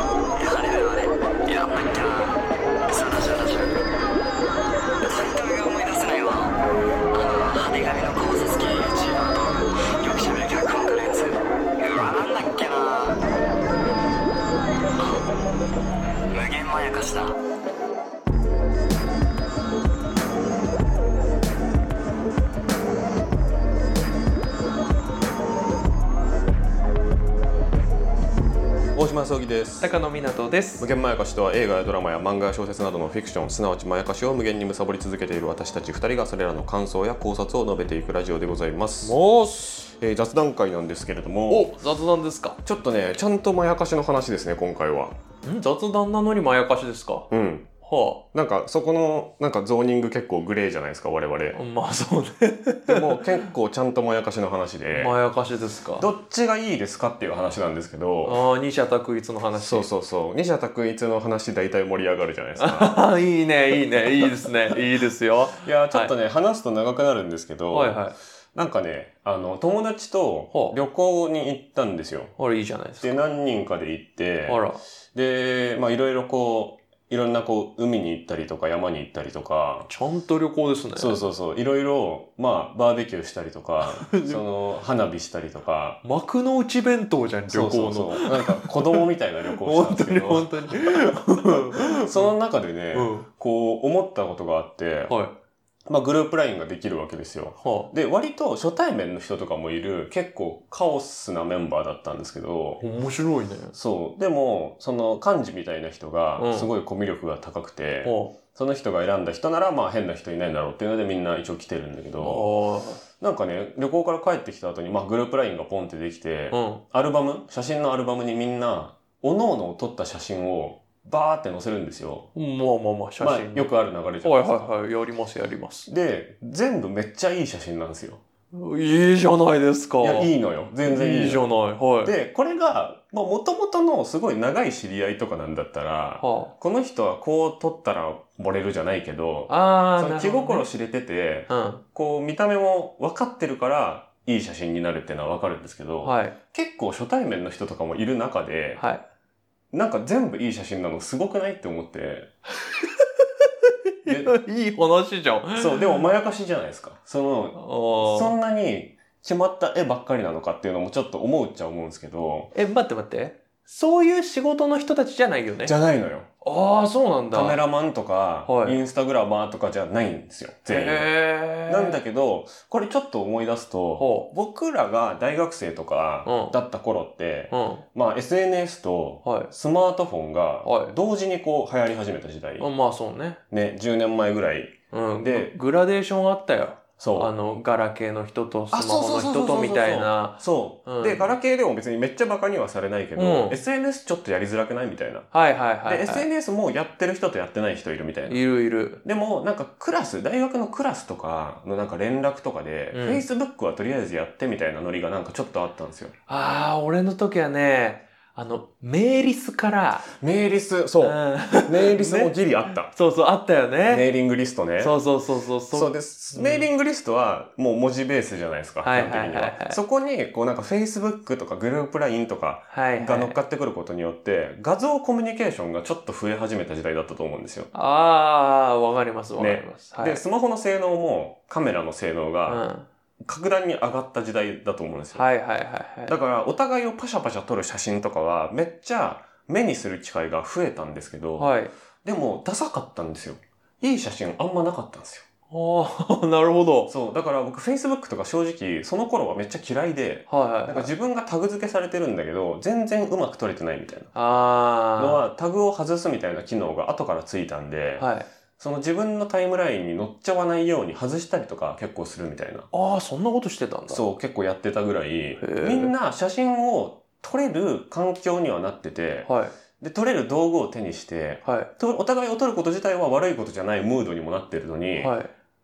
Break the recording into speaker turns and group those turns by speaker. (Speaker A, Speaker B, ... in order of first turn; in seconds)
Speaker A: 0.4-3.8, 5.0-6.5, 7.1-13.2, 15.0-15.2, 16.3-17.4
Speaker B: 28.9-29.9, 30.8-39.2, 39.9-41.7, 42.6-45.1, 47.3-47.7, 48.3-51.6, 52.9-55.1, 56.0-58.4, 59.6-63.0, 64.0-64.8, 65.5-68.0, 68.5-72.3, 73.0-79.9, 81.0-86.0, 87.5-95.1, 95.8-102.8, 103.7-112.5, 113.2-122.3, 123.2-124.6, 125.9-128.2, 130.0-131.4, 132.0-148.8, 149.7-152.3, 154.1-154.3, 155.5-162.5, 165.6-166.3, 167.3-171.1, 171.7-182.7, 183.5-185.5, 187.0-187.3, 188.7-195.3, 195.8-198.4, 199.0-206.1, 210.1-212.9, 213.9-214.9, 215.7-227.7, 229.4-232.6, 233.2-235.3, 236.1-241.5, 242.0-245.2, 246.9-254.1, 255.0-258.1, 258.6-262.7, 263.9-275.1
Speaker C: 29.8-30.9, 39.0-39.9, 41.5-42.6, 45.4-47.3, 47.8-48.2, 51.5-53.4, 54.9-56.1, 58.2-59.9, 62.6-66.1, 67.7-68.2, 70.5-70.8, 72.4-73.2, 74.5-74.8, 79.9-81.2, 83.8-84.4, 86.0-92.3, 92.9-93.3, 95.1-95.3, 97.6-97.9, 102.8-103.7, 106.4-106.7, 108.0-108.3, 112.2-113.0, 116.5-116.8, 122.3-123.7, 124.2-125.9, 128.5-130.3, 130.8-132.1, 136.2-136.5, 139.5-140.7, 141.5-141.8, 146.0-146.3, 148.8-149.0, 152.6-153.2, 154.0-156.0, 157.5-158.3, 162.5-165.7, 166.4-167.6, 168.4-168.8, 170.7-172.0, 174.0-174.3, 176.2-176.6, 177.5-177.8, 179.2-179.5, 180.6-180.9, 182.6-183.4, 184.9-191.3, 193.2-193.6, 195.3-196.3, 198.3-199.0, 202.9-203.2, 206.3-210.1, 211.0-214.1, 214.8-216.7, 218.8-219.8, 222.7-223.4, 227.7-230.2, 232.5-232.9, 235.1-236.1, 241.4-241.7, 245.5-246.9, 250.3-250.9, 254.1-255.2, 258.0-258.3, 262.7-264.0, 265.4-265.9, 269.2-269.5, 271.4-271.7, 275.0-275.3